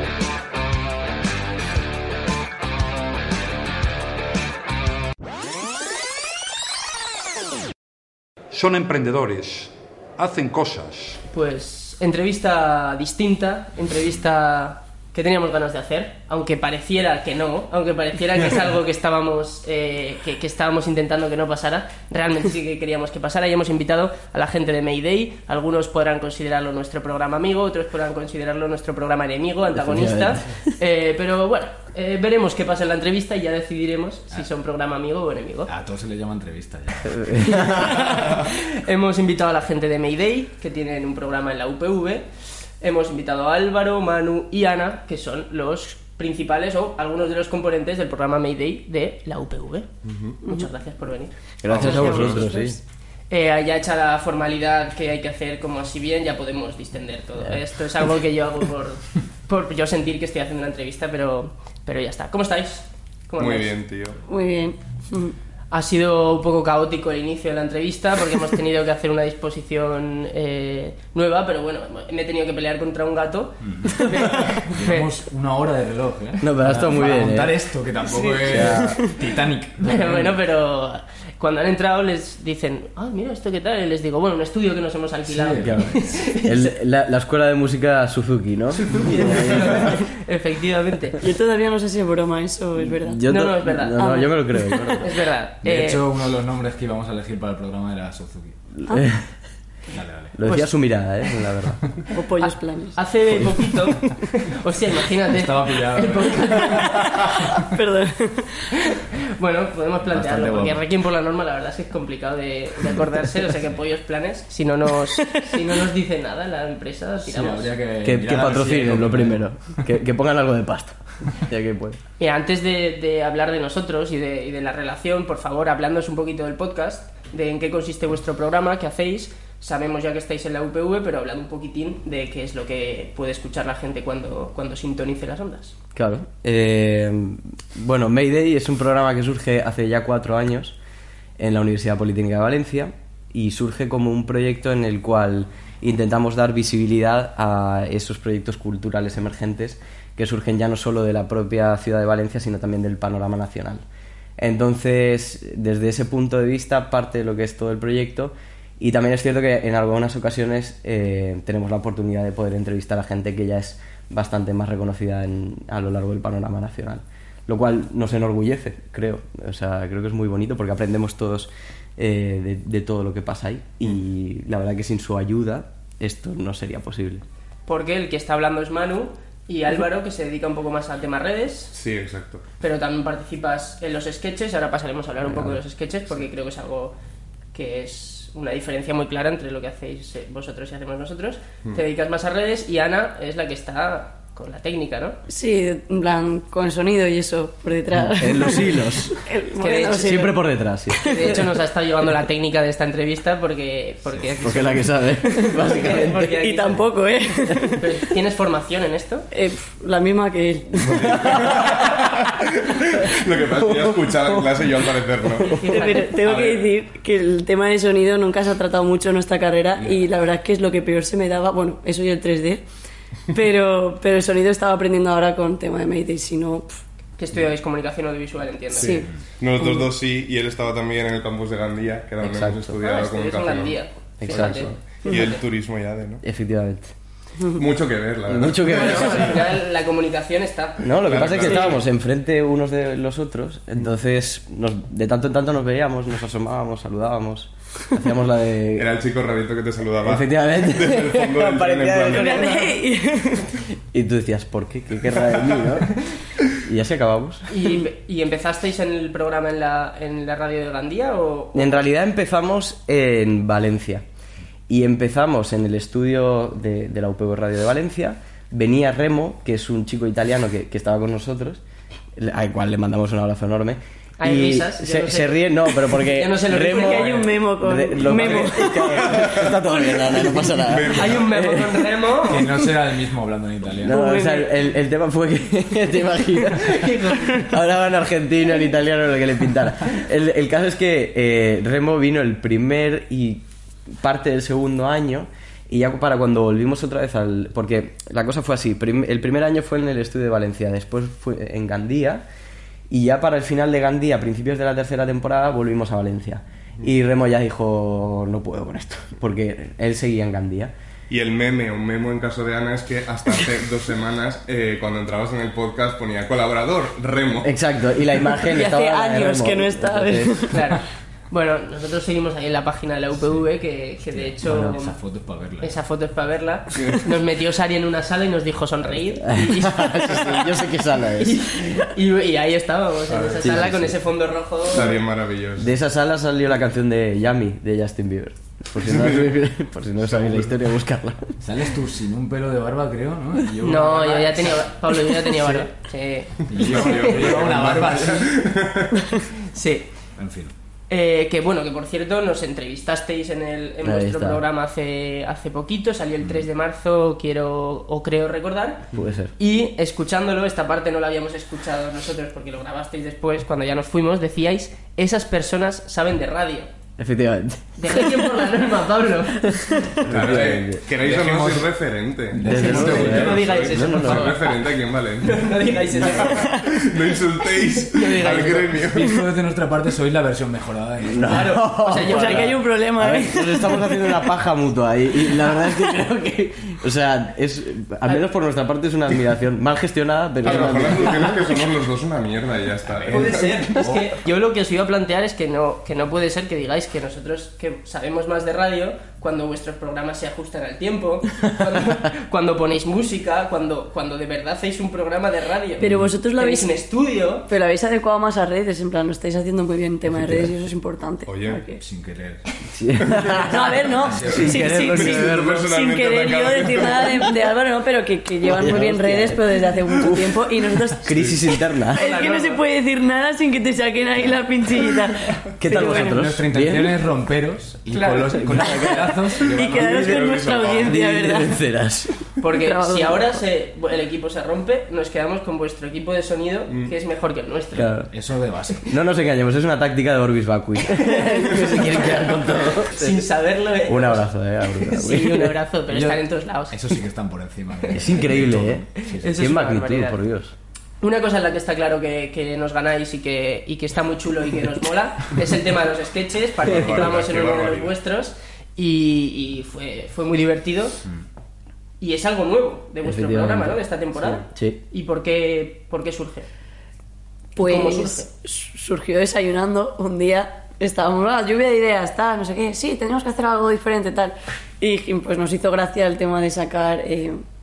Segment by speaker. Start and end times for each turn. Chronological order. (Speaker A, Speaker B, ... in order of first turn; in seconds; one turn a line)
Speaker A: 8.5-11.2
Speaker B: 11.3-35.7
Speaker C: 29.8-30.5
Speaker D: 35.7-37.5
Speaker C: 37.1-38.0
Speaker B: 37.5-42.3
Speaker B: 42.8-49.9
Speaker E: 50.0-50.4
Speaker B: 50.5-52.5
Speaker C: 51.6-52.8
Speaker E: 51.7-52.4
Speaker F: 51.9-52.7
Speaker B: 53.3-63.7
Speaker E: 63.4-64.2
Speaker F: 64.3-65.3
Speaker B: 65.7-75.2
Speaker D: 73.6-80.4
Speaker C: 76.4-77.6
Speaker F: 78.1-79.1
Speaker C: 78.4-79.0
Speaker B: 79.8-86.7
Speaker D: 85.3-86.1
Speaker C: 85.6-90.0
Speaker B: 88.7-91.2
Speaker F: 91.2-93.2
Speaker C: 92.8-95.1
Speaker B: 93.3-94.0
Speaker F: 94.0-95.0
Speaker B: 95.0-96.0
Speaker D: 95.6-98.6
Speaker C: 98.8-99.2
Speaker D: 99.9-100.3
Speaker C: 100.3-102.0
Speaker F: 102.1-103.0
Speaker B: 102.4-107.3
Speaker D: 105.3-107.2
Speaker F: 107.6-108.6
Speaker B: 108.8-117.7
Speaker D: 110.0-110.8
Speaker F: 115.2-115.7
Speaker D: 117.2-119.5
Speaker C: 118.0-122.0
Speaker B: 122.2-135.8
Speaker C: 135.9-140.8
Speaker C: 141.4-153.8
Speaker C: 154.4-177.2
Speaker B: 177.7-181.7
Speaker E: 181.7-182.4
Speaker B: 182.6-187.0
Speaker C: 185.3-185.6
Speaker B: 187.5-195.2
Speaker F: 195.3-200.4
Speaker C: 197.9-199.2
Speaker B: 199.6-200.3
Speaker C: 200.0-201.4
Speaker B: 201.0-204.8
Speaker F: 201.0-201.4
Speaker C: 204.4-206.4
Speaker F: 205.5-207.9
Speaker B: 205.6-206.9
Speaker B: 207.8-209.3
Speaker F: 209.3-211.9
Speaker C: 210.9-211.3
Speaker E: 211.3-215.6
Speaker F: 215.5-222.7
Speaker B: 215.6-216.2
Speaker E: 216.2-216.7
Speaker F: 223.3-226.8
Speaker B: 227.2-229.0
Speaker F: 228.7-229.1
Speaker E: 228.8-236.2
Speaker C: 232.2-232.8
Speaker B: 232.8-235.4
Speaker C: 234.2-234.8
Speaker C: 236.2-236.9
Speaker E: 237.5-239.3
Speaker C: 238.3-239.4
Speaker B: 238.7-241.7
Speaker C: 240.8-248.9
Speaker E: 241.0-241.8
Speaker E: 248.8-252.5
Speaker C: 250.0-252.8
Speaker F: 252.1-253.5
Speaker C: 253.9-256.0
Speaker C: 256.6-257.5
Speaker B: 257.5-261.9
Speaker C: 261.6-264.0
Speaker C: 264.7-271.6
Speaker C: 272.2-282.0
Speaker B: 274.2-277.4
Speaker F: 276.6-279.3
Speaker B: 278.2-278.7
Speaker E: 279.1-279.5
Speaker E: 280.6-281.3
Speaker B: 280.9-282.5
Speaker D: 282.3-284.0
Speaker C: 283.8-302.2
Speaker F: 283.9-284.5
Speaker B: 286.6-287.4
Speaker C: 302.9-310.7
Speaker E: 311.1-317.5
Speaker C: 317.4-320.5
Speaker F: 318.5-320.6
Speaker B: 320.5-324.9
Speaker D: 324.1-325.8
Speaker C: 324.4-324.8
Speaker B: 325.6-330.4
Speaker C: 329.2-331.4
Speaker B: 331.2-334.9
Speaker E: 333.1-333.6
Speaker C: 333.4-334.0
Speaker E: 334.7-335.7
Speaker C: 335.6-341.4
Speaker E: 338.8-339.4
Speaker E: 340.1-340.5
Speaker D: 341.4-344.7
Speaker B: 343.6-347.1
Speaker D: 346.5-348.4
Speaker E: 346.5-349.1
Speaker B: 349.5-349.9
Speaker D: 350.2-350.5
Speaker B: 350.9-366.7
Speaker C: 353.8-354.4
Speaker C: 358.9-359.3
Speaker C: 367.0-368.1
Speaker B: 367.8-369.4
Speaker C: 370.0-370.8
Speaker E: 370.1-379.1
Speaker D: 371.0-371.7
Speaker D: 372.3-373.5
Speaker C: 372.4-374.4
Speaker B: 372.5-376.5
Speaker B: 377.9-378.8
Speaker D: 379.0-381.5
Speaker C: 381.1-391.5
Speaker B: 381.3-382.6
Speaker F: 381.9-384.2
Speaker E: 390.4-393.7
Speaker D: 392.8-394.1
Speaker B: 393.1-407.5
Speaker F: 405.8-406.8
Speaker F: 407.5-411.8
Speaker C: 410.1-410.5
Speaker E: 411.3-411.6
Speaker D: 411.8-412.4
Speaker C: 412.7-415.6
Speaker E: 413.2-413.5
Speaker F: 413.4-421.4
Speaker D: 414.0-414.6
Speaker E: 414.7-417.4
Speaker C: 418.5-420.4
Speaker C: 420.9-422.1
Speaker F: 421.9-426.3
Speaker B: 422.0-422.6
Speaker C: 425.6-427.0
Speaker D: 426.0-430.0
Speaker B: 427.9-428.5
Speaker C: 428.4-429.0
Speaker F: 428.6-431.6
Speaker E: 429.5-431.1
Speaker C: 430.9-432.1
Speaker B: 432.4-437.9
Speaker F: 432.5-433.4
Speaker E: 436.7-436.9
Speaker C: 437.8-438.1
Speaker D: 438.1-438.9
Speaker C: 438.9-443.2
Speaker B: 441.0-442.1
Speaker B: 442.9-444.3
Speaker C: 443.9-445.6
Speaker B: 444.8-446.8
Speaker D: 445.9-449.4
Speaker C: 447.9-450.6
Speaker B: 449.0-450.2
Speaker B: 451.0-461.0
Speaker E: 456.6-457.9
Speaker B: 462.0-466.5
Speaker C: 463.0-464.8
Speaker F: 467.6-477.4
Speaker B: 467.6-468.3